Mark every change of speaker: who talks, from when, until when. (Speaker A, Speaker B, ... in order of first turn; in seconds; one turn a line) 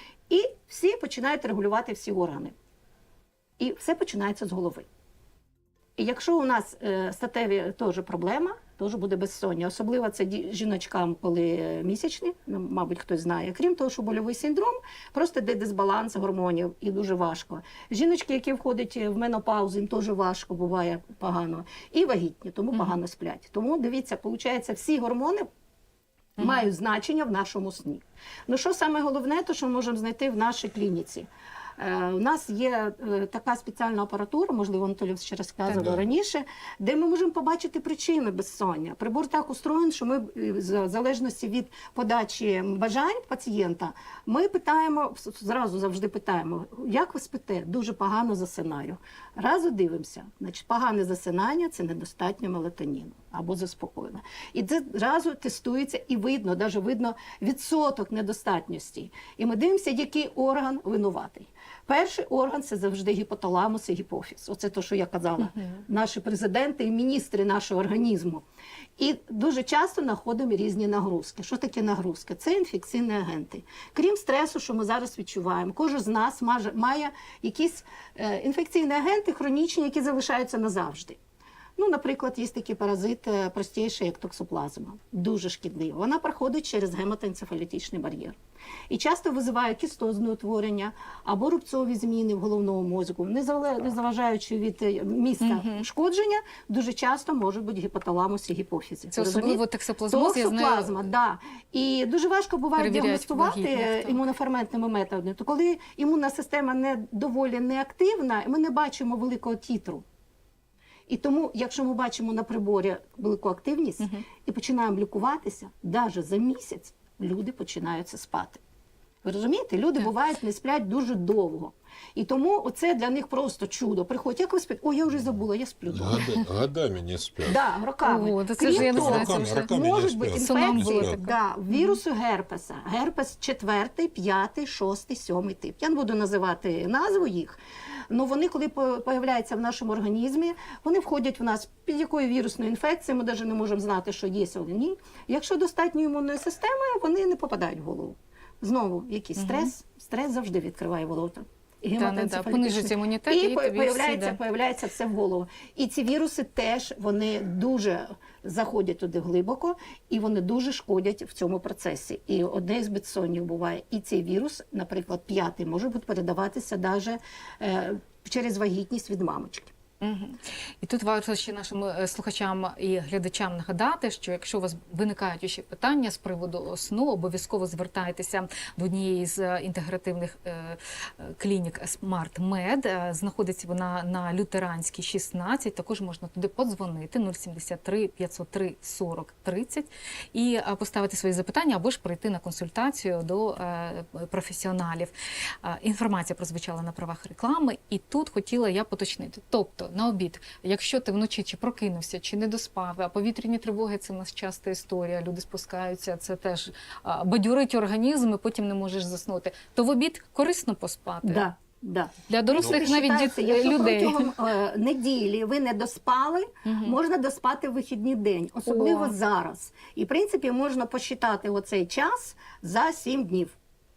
Speaker A: 0.3-2.5
Speaker A: 3.6-4.8
Speaker A: 6.0-25.5
Speaker B: 26.4-26.6
Speaker A: 26.4-68.4
Speaker C: 35.7-36.0
Speaker A: 69.0-81.2
Speaker A: 81.8-88.4
Speaker A: 88.9-110.0
Speaker B: 95.4-95.8
Speaker B: 99.1-101.0
Speaker B: 102.8-104.2
Speaker A: 111.1-118.6
Speaker A: 119.2-126.4
Speaker C: 125.9-127.6
Speaker A: 127.5-137.6
Speaker B: 128.0-129.7
Speaker C: 128.6-131.2
Speaker B: 130.3-132.0
Speaker A: 138.1-169.7
Speaker B: 149.4-149.7
Speaker B: 152.0-154.4
Speaker B: 170.0-211.4
Speaker A: 211.2-223.6
Speaker B: 212.3-214.3
Speaker C: 212.6-212.8
Speaker B: 216.6-217.0
Speaker B: 218.7-219.1